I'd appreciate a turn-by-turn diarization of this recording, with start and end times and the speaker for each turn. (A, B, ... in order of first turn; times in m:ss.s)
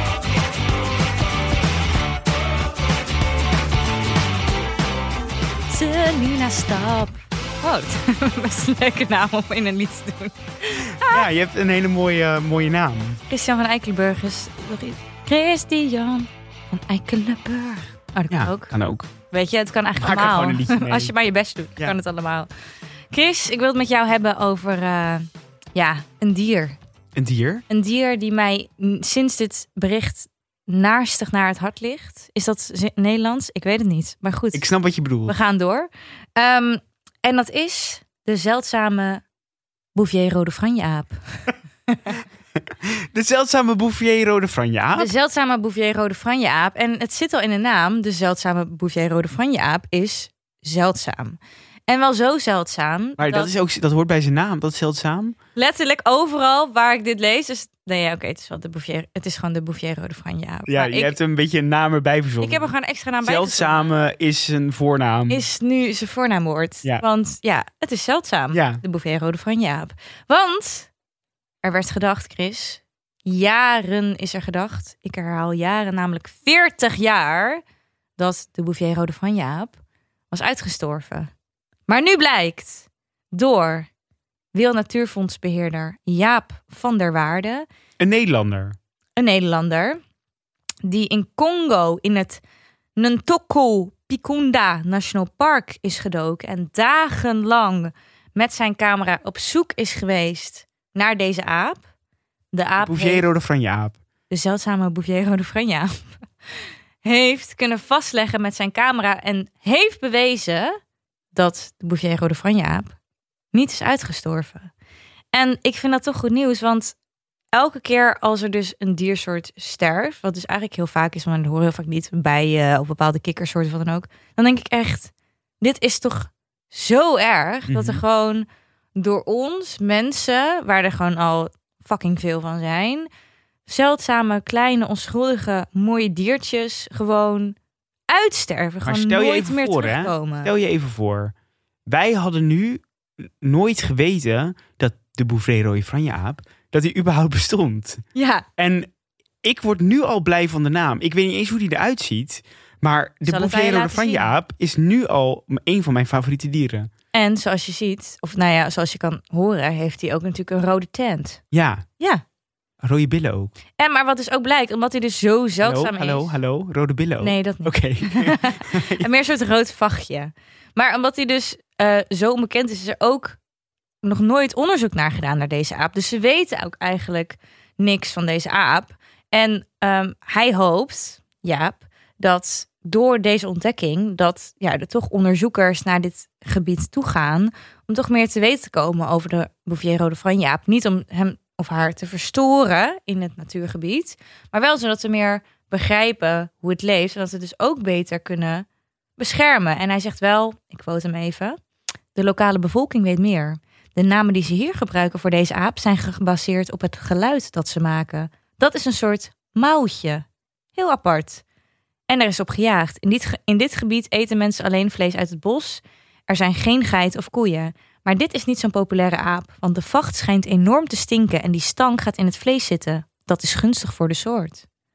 0:05.7-0:11.3 A
0:11.0-0:13.2 B
0:13.3-0:18.7 A
0:18.3-0:19.1 B
0:19.3-0:22.5 A
0:20.0-0:21.1 B
0:23.1-0:26.8 A
0:27.1-0:27.6 B
0:27.7-0:34.7 A
0:34.5-0:35.4 B
0:35.3-0:39.2 A
0:39.9-0:42.1 A
0:42.8-0:45.1 B
0:45.0-0:53.5 A
0:53.2-0:55.4 B
0:55.6-1:01.2 A
1:00.7-1:05.4 B
1:02.4-1:03.9 A
1:05.3-1:10.9 A
1:08.5-1:08.8 B
1:11.6-1:17.6 A
1:18.2-1:19.8 A
1:20.3-1:21.3 A
1:21.9-1:23.9 A
1:24.5-1:27.6 A
1:28.0-1:28.8 B
1:29.2-1:30.0 A
1:30.8-1:32.4 A
1:33.0-1:41.8 A
1:42.5-1:43.3 A
1:42.8-1:44.0 B
1:44.3-1:50.7 A
1:51.3-1:52.9 A
1:53.5-1:54.7 A
1:55.3-1:57.0 A
1:57.5-2:13.1 A
2:07.7-2:08.0 B
2:13.7-2:17.6 A
2:18.1-2:20.5 A
2:18.8-2:21.3 B
2:21.9-2:28.0 B
2:28.1-2:28.4 A
2:28.6-2:28.9 B
2:29.4-2:36.9 B
2:33.2-2:34.3 A
2:37.1-2:41.4 A
2:41.5-2:41.8 B
2:42.8-2:43.5 B
2:43.8-2:46.3 A
2:45.6-2:49.0 B
2:47.2-2:53.4 A
2:54.0-3:18.6 A
3:19.2-3:21.6 A
3:22.1-3:31.4 A
3:32.1-3:44.6 A